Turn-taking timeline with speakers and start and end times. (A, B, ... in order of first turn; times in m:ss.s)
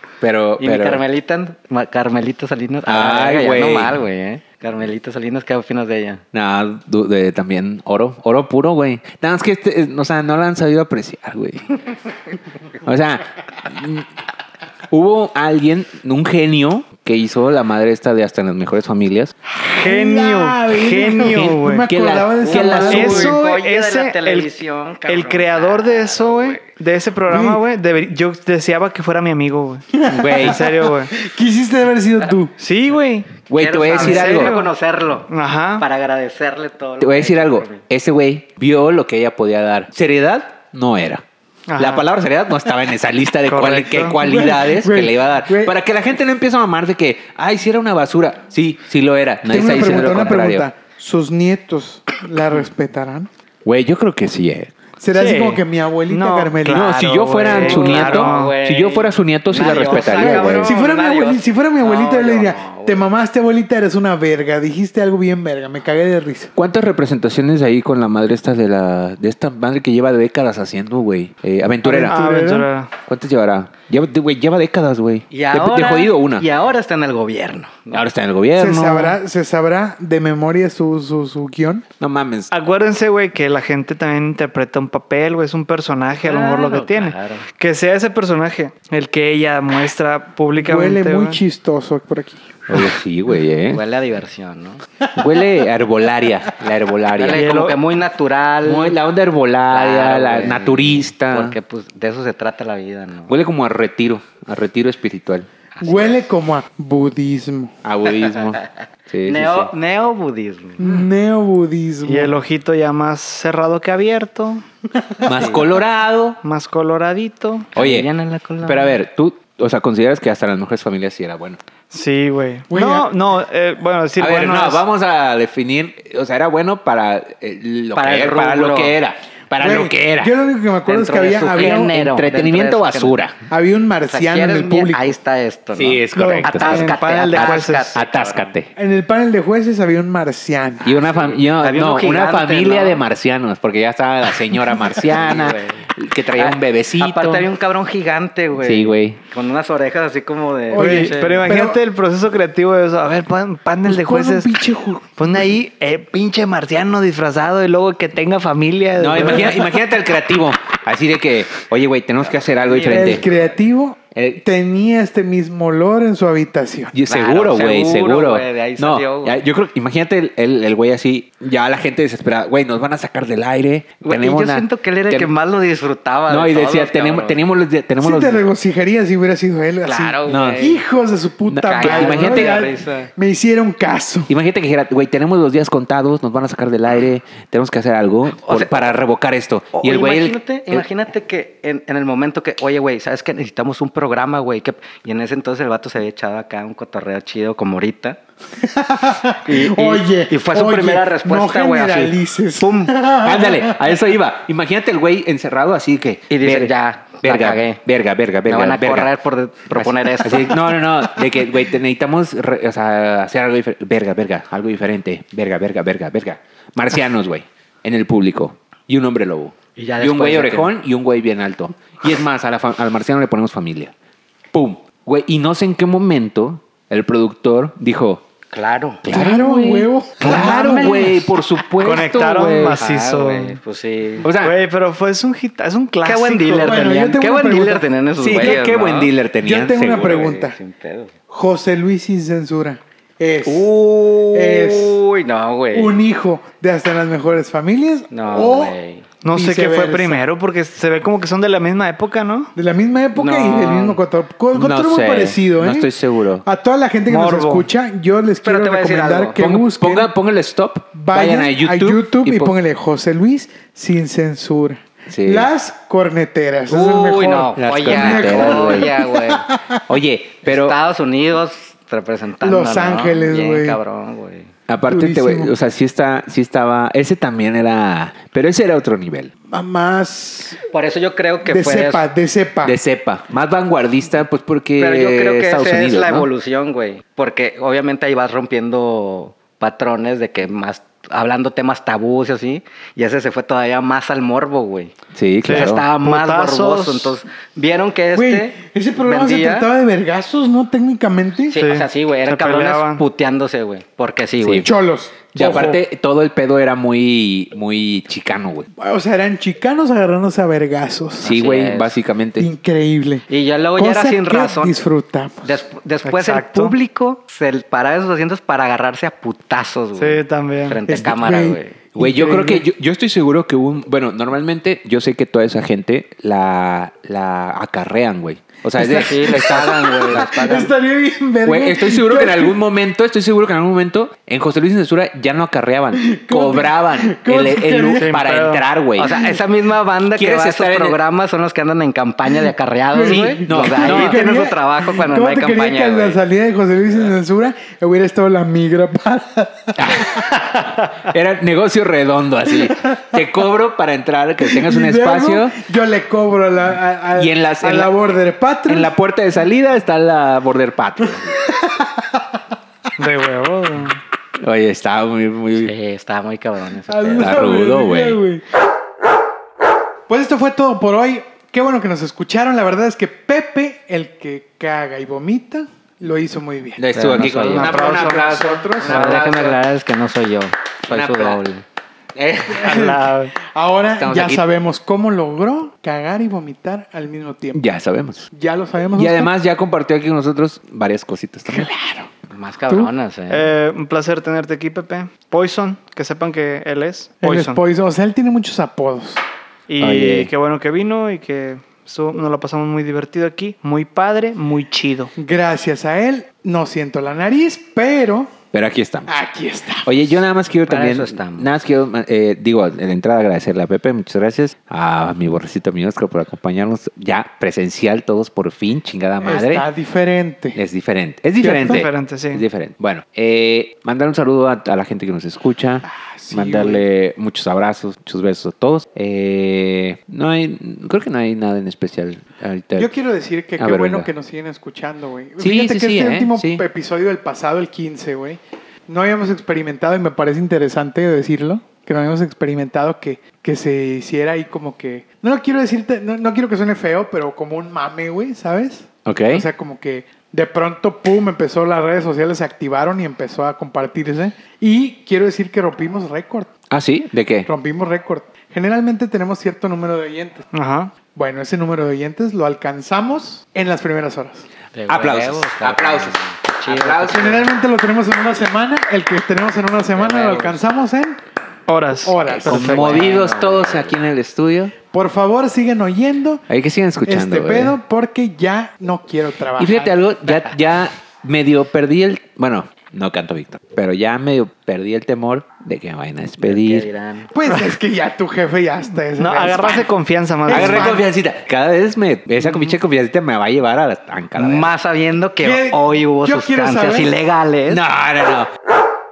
0:00.2-0:01.0 A
0:00.6-0:06.2 B
0:02.8-0:04.0 A
0:06.3-0:11.7 A
0:12.8-0:14.1 A
0:14.9-0:19.3 A
0:19.5-0:23.3 C
0:19.7-0:21.9 D
0:21.2-0:23.4 A
0:22.4-0:26.6 B
0:22.9-0:24.5 D
0:25.0-0:29.8 D
0:27.3-0:27.6 C
0:29.9-0:32.5 C
0:30.1-0:30.6 A
0:30.4-0:31.1 D
0:32.6-0:33.3 D
0:33.5-0:34.5 A
0:33.5-0:37.8 B
0:33.9-0:34.7 D
0:35.3-0:35.8 D
0:37.0-0:41.2 A
0:41.7-0:42.0 D
0:41.8-0:50.7 A
0:43.5-0:44.2 D
0:44.2-0:45.8 C
0:49.5-0:53.3 C
0:53.6-0:54.7 A
0:55.0-0:56.9 C
0:55.1-0:58.6 D
0:56.6-1:00.8 A
0:57.4-1:03.0 B
0:59.9-1:06.5 C
1:06.5-1:12.2 A
1:11.8-1:12.7 C
1:12.0-1:12.9 D
1:13.0-1:16.5 A
1:15.3-1:18.0 B
1:17.9-1:19.2 A
1:18.5-1:21.8 C
1:22.0-1:22.5 A
1:22.5-1:31.4 D
1:26.1-1:27.4 B
1:30.6-1:32.6 C
1:32.7-1:33.8 A
1:33.7-1:34.8 B
1:35.2-1:37.4 A
1:37.1-1:39.0 B
1:37.3-1:37.8 D
1:38.6-1:41.6 A
1:39.7-1:43.3 B
1:43.3-1:45.5 A
1:45.8-1:46.2 B
1:45.8-1:47.7 C
1:47.8-1:49.7 A
1:49.2-1:50.8 B
1:50.8-1:52.3 C
1:52.0-1:54.6 D
1:55.2-1:56.4 A
1:56.4-1:57.7 D
1:57.7-1:58.1 A
1:57.7-1:59.0 B
1:58.6-2:01.6 A
2:01.9-2:04.8 D
2:02.7-2:03.1 C
2:04.2-2:10.3 A
2:07.9-2:08.9 B
2:09.6-2:12.0 C
2:10.8-2:13.2 B
2:11.5-2:13.4 A
2:13.5-2:15.1 C
2:14.1-2:18.6 B
2:15.7-2:18.7 A
2:16.1-2:18.0 D
2:18.8-2:21.0 C
2:20.8-2:27.5 A
2:21.1-2:23.0 B
2:24.9-2:25.8 B
2:26.3-2:31.5 B
2:28.6-2:29.2 A
2:30.7-2:31.8 C
2:30.7-2:34.5 D
2:33.8-2:35.2 C
2:35.2-2:39.7 D
2:39.0-2:43.3 A
2:42.6-2:43.4 B
2:42.8-2:46.9 C
2:44.1-2:44.4 A
2:46.9-2:55.3 A
2:47.1-2:49.4 B
2:54.0-2:57.4 B
2:56.3-2:58.4 A
2:58.0-3:04.3 C
2:59.8-3:00.8 B
3:00.3-3:00.7 A
3:01.5-3:02.6 A
3:01.7-3:03.1 B
3:04.3-3:10.8 A
3:08.4-3:08.8 B
3:09.8-3:18.2 B
3:18.6-3:23.8 C
3:19.4-3:23.0 B
3:23.2-3:29.1 A
3:26.3-3:27.8 B
3:28.5-3:30.6 B
3:29.7-3:43.9 A
3:39.8-3:40.7 B
3:44.5-3:48.2 A
3:48.5-3:49.0 B
3:49.0-3:52.8 A
3:49.1-3:51.4 C
3:51.8-3:53.6 D
3:52.7-3:54.2 B
3:54.2-3:54.5 A
3:54.2-3:56.9 D
3:56.0-3:59.1 B
3:56.6-3:58.6 C
3:58.2-4:00.3 A
3:59.4-4:00.6 C
3:59.9-4:01.1 B
4:01.3-4:03.7 C
4:03.4-4:06.0 B
4:04.3-4:05.0 C
4:05.7-4:08.8 C
4:08.1-4:09.0 B
4:09.2-4:12.5 D
4:09.3-4:10.2 C
4:12.6-4:15.9 C
4:13.2-4:14.0 B
4:14.5-4:16.4 A
4:16.4-4:20.1 C
4:17.1-4:17.7 D
4:18.4-4:19.4 B
4:19.4-4:22.5 A
4:20.9-4:29.8 C
4:25.1-4:25.5 A
4:26.7-4:29.5 B
4:27.6-4:28.9 A
4:29.9-4:30.8 A
4:30.4-4:34.5 B
4:32.4-4:33.8 C
4:34.7-4:39.3 A
4:34.9-4:35.5 C
4:39.5-4:40.6 C
4:40.7-4:42.0 B
4:41.4-4:42.8 C
4:42.6-4:46.3 A
4:44.8-4:54.9 B
4:55.1-4:55.8 A
4:55.4-4:57.1 D
4:55.5-4:59.7 B
4:58.1-5:01.6 C
5:01.5-5:04.7 B
5:01.5-5:03.0 D
5:04.4-5:04.7 A
5:04.6-5:05.8 C
5:05.3-5:08.7 A
5:08.8-5:11.3 C
5:11.2-5:11.9 B
5:11.2-5:12.5 A
5:12.4-5:15.5 C
5:13.3-5:14.7 B
5:15.4-5:21.8 B
5:16.0-5:16.7 D
5:20.0-5:20.8 D
5:20.8-5:22.6 C
5:21.9-5:30.6 A
5:28.8-5:32.6 C
5:28.8-5:30.7 B
5:31.4-5:39.3 A
5:35.9-5:38.2 C
5:38.0-5:38.6 D
5:39.0-5:46.2 B
5:39.1-5:39.4 C
5:40.2-5:41.0 A
5:42.9-5:50.2 C
5:43.0-5:44.2 A
5:49.8-5:55.6 A
5:54.4-5:58.9 C
5:57.1-5:57.9 A
5:58.6-6:01.3 A
6:01.4-6:02.2 C
6:03.0-6:04.0 D
6:04.4-6:05.7 A
6:05.5-6:07.4 B
6:06.9-6:08.4 C
6:07.2-6:08.2 A
6:10.1-6:16.8 C
6:16.8-6:19.6 A
6:16.9-6:18.2 B
6:17.6-6:19.2 D
6:17.7-6:19.1 C
6:18.8-6:21.6 B
6:20.9-6:21.4 A
6:22.1-6:22.9 A
6:22.5-6:27.6 C
6:22.6-6:23.3 D
6:24.0-6:24.4 A
6:27.5-6:28.3 A
6:28.3-6:29.3 C
6:29.0-6:31.7 A
6:31.5-6:32.1 C
6:32.3-6:33.5 B
6:33.3-6:37.6 D
6:37.2-6:39.2 C
6:39.7-6:45.1 D
6:39.8-6:40.3 A
6:45.2-6:48.3 C
6:48.5-6:49.1 A
6:49.1-6:50.2 C
6:49.8-6:59.6 A
6:50.6-6:51.5 B
6:59.2-7:00.6 C
7:00.6-7:12.9 A
7:01.4-7:01.9 C
7:01.4-7:02.4 D
7:05.8-7:06.8 C
7:12.8-7:36.5 C
7:13.6-7:14.1 A
7:15.4-7:16.6 A
7:29.0-7:29.4 A
7:36.7-7:37.5 A
7:37.4-7:40.4 C
7:40.5-7:40.9 D
7:41.1-7:44.5 C
7:44.7-7:47.4 B
7:44.9-7:47.4 A
7:47.1-7:51.2 C
7:49.9-7:50.6 B
7:51.7-7:53.0 D
7:52.0-7:52.8 C
7:52.2-7:54.0 B
7:52.4-7:54.7 A
7:54.9-7:56.4 C
7:56.5-7:57.8 A
7:57.0-8:00.0 C
7:59.6-8:06.9 A
8:06.4-8:07.3 B
8:07.3-8:09.9 C
8:09.2-8:11.0 D
8:10.4-8:11.1 C
8:10.5-8:14.7 A
8:14.4-8:17.8 B
8:15.4-8:17.1 C
8:17.7-8:18.5 A